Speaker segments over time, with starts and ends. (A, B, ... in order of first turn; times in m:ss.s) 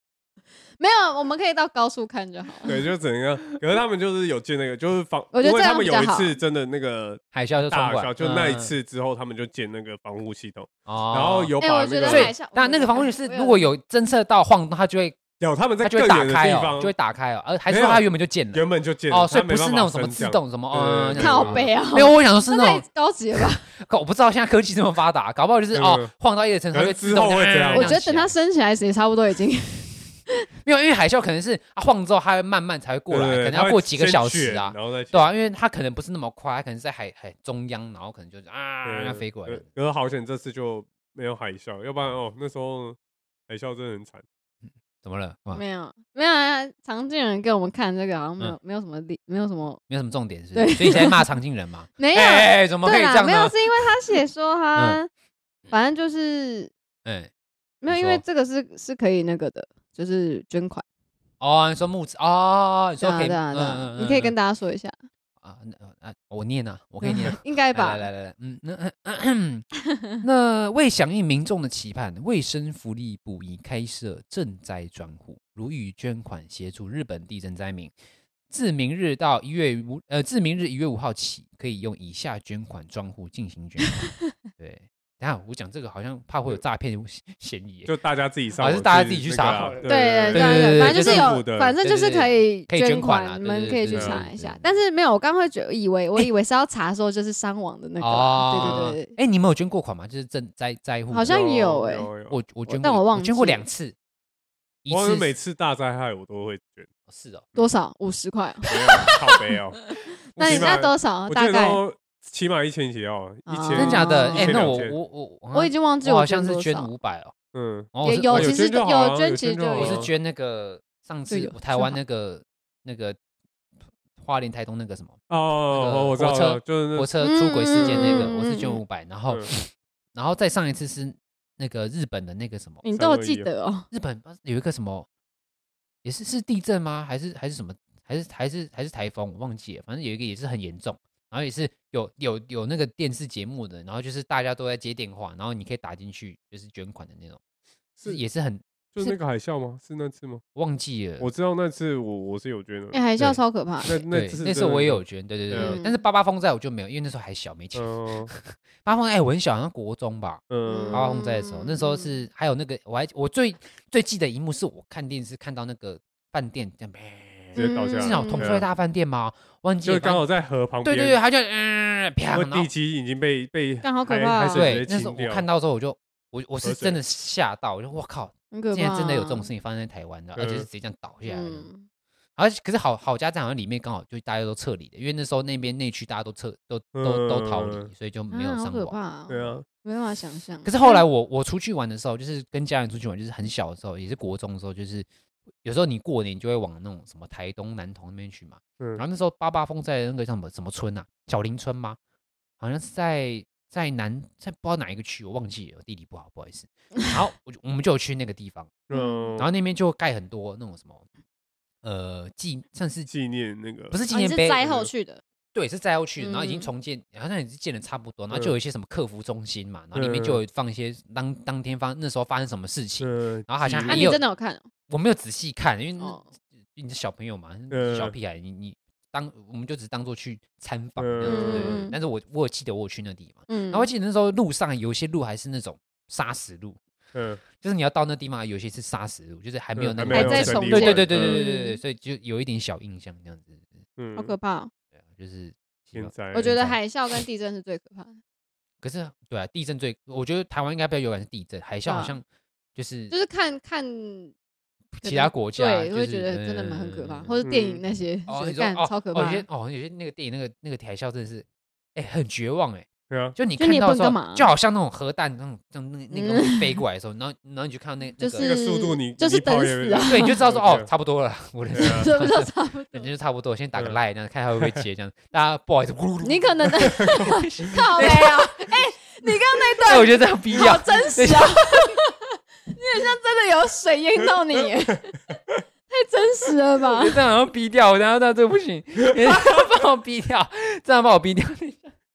0:00.8-0:02.8 A
0:02.6-0:12.3 B
0:05.3-0:06.4 A
0:07.3-0:08.7 C
0:10.9-0:11.5 C
0:11.6-0:13.7 A
0:12.0-0:15.2 C
0:15.4-0:16.9 B
0:15.8-0:22.8 C
0:17.7-0:21.7 B
0:21.2-0:23.7 A
0:23.4-0:28.3 C
0:25.7-0:26.1 B
0:26.7-0:27.9 B
0:27.7-0:30.0 A
0:30.6-0:39.6 C
0:33.1-0:35.3 B
0:38.8-0:43.0 B
0:43.5-0:44.2 B
0:45.0-0:45.6 C
0:45.5-0:49.8 A
0:49.9-0:53.6 C
0:50.5-0:51.2 A
0:52.0-0:55.1 A
0:54.7-0:55.0 C
0:55.7-0:56.7 A
0:57.0-0:57.3 C
0:57.8-1:00.8 A
0:57.9-0:58.2 C
1:01.4-1:04.3 C
1:03.0-1:05.0 A
1:05.4-1:17.9 C
1:07.0-1:08.0 A
1:18.5-1:27.9 C
1:27.8-1:31.8 B
1:28.6-1:34.7 C
1:29.8-1:39.1 A
1:33.9-1:34.2 B
1:38.0-1:41.4 C
1:38.6-1:38.9 B
1:41.1-1:42.1 A
1:41.3-1:42.4 B
1:42.3-1:44.0 C
1:42.7-1:43.6 A
1:44.8-1:45.3 C
1:44.9-1:46.9 B
1:47.1-1:47.5 C
1:47.6-1:49.3 A
1:48.7-1:49.8 B
1:50.3-1:50.7 C
1:50.3-1:51.8 A
1:50.4-1:55.0 B
1:53.5-1:54.7 A
1:53.7-1:57.3 C
1:55.5-1:56.9 A
1:57.5-2:00.1 B
1:57.9-1:58.7 C
1:58.0-2:00.0 A
1:59.8-2:03.2 C
2:01.3-2:02.0 A
2:04.2-2:05.2 C
2:05.3-2:07.1 B
2:05.7-2:12.8 C
2:07.2-2:08.8 A
2:07.7-2:08.3 B
2:12.8-2:13.9 A
2:12.9-2:13.5 B
2:13.9-2:15.1 C
2:16.0-2:27.4 C
2:28.0-2:28.6 C
2:28.9-2:30.4 B
2:30.5-2:31.3 C
2:31.2-2:35.8 B
2:32.9-2:34.0 A
2:34.1-2:50.2 C
2:35.5-2:36.0 A
2:37.7-2:38.3 B
2:40.5-2:41.2 B
2:40.7-2:42.1 A
2:47.5-2:48.7 B
2:47.6-2:48.5 A
2:49.8-2:51.2 B
2:50.8-2:52.7 C
2:52.3-2:55.4 B
2:53.8-2:54.7 A
2:54.5-3:01.7 C
2:56.6-2:57.0 B
2:58.5-2:59.5 A
3:00.4-3:00.7 B
3:01.2-3:01.8 A
3:02.4-3:09.0 C
3:06.9-3:07.9 B
3:08.3-3:11.0 A
3:09.3-3:09.6 B
3:10.6-3:15.1 C
3:15.6-3:22.0 C
3:22.6-3:28.8 C
3:28.9-3:29.5 B
3:28.9-3:29.4 A
3:29.4-3:31.0 C
3:31.8-3:33.1 C
3:33.1-3:34.0 B
3:33.9-3:34.7 C
3:34.1-3:35.2 A
3:35.5-3:44.2 C
3:36.2-3:36.7 A
3:39.9-3:40.4 B
3:43.0-3:44.2 B
3:43.9-3:44.7 A
3:44.9-3:56.8 C
3:46.0-3:46.2 A
3:47.7-3:48.1 B
3:51.0-3:51.8 B
3:51.2-3:51.9 A
3:53.5-3:53.9 A
3:57.1-3:57.4 B
3:57.5-4:03.7 C
3:59.8-4:01.4 B
4:00.1-4:01.8 A
4:04.0-4:04.3 B
4:04.1-4:04.7 A
4:05.0-4:06.8 C
4:05.9-4:06.5 B
4:06.3-4:08.2 A
4:08.8-4:12.2 C
4:11.8-4:12.2 A
4:12.7-4:13.1 C
4:13.1-4:14.3 A
4:15.0-4:17.4 C
4:15.0-4:19.4 A
4:17.4-4:17.8 B
4:18.3-4:28.5 C
4:23.1-4:23.4 B
4:23.6-4:24.5 A
4:26.1-4:26.8 A
4:28.2-4:30.4 A
4:28.4-4:30.9 B
4:30.0-4:42.0 C
4:31.7-4:32.1 B
4:31.8-4:33.1 A
4:34.6-4:34.8 B
4:36.2-4:45.3 A
4:37.0-4:37.3 B
4:45.9-4:47.2 A
4:46.9-4:51.9 C